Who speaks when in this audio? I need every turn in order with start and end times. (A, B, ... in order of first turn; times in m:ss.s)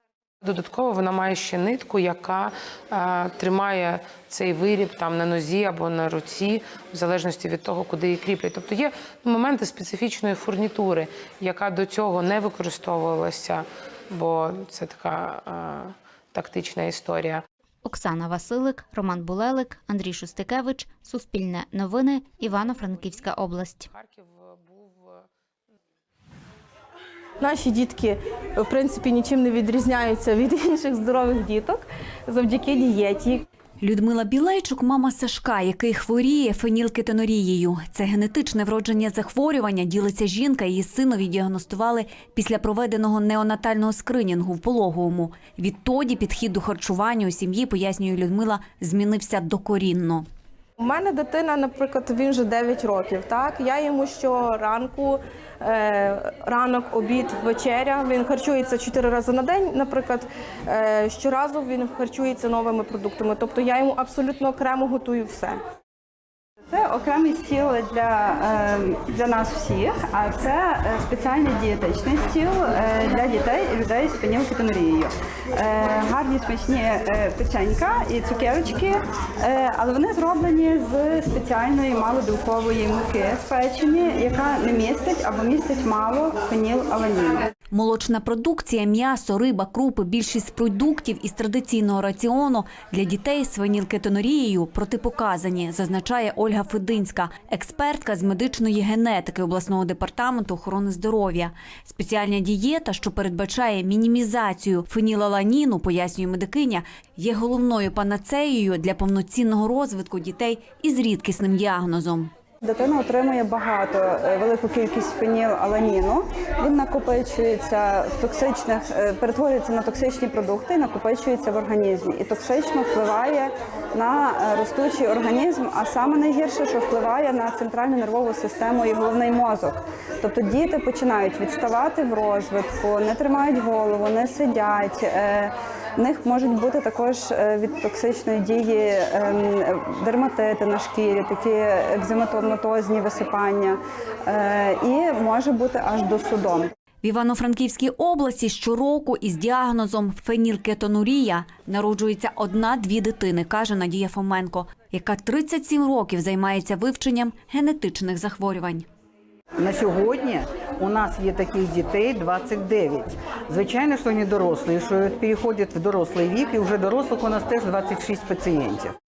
0:00.4-0:17.4 A
0:17.8-0:23.9 B
0:22.4-0:23.3 A
0:23.9-0:25.3 A
0:27.4-0:33.4 C
0:33.8-0:50.2 D
0:50.8-0:55.1 C
0:55.7-1:05.6 C
1:06.7-1:27.5 E
1:27.7-1:52.3 D
1:52.6-2:26.7 E
2:27.0-2:38.8 D
2:39.6-2:48.8 F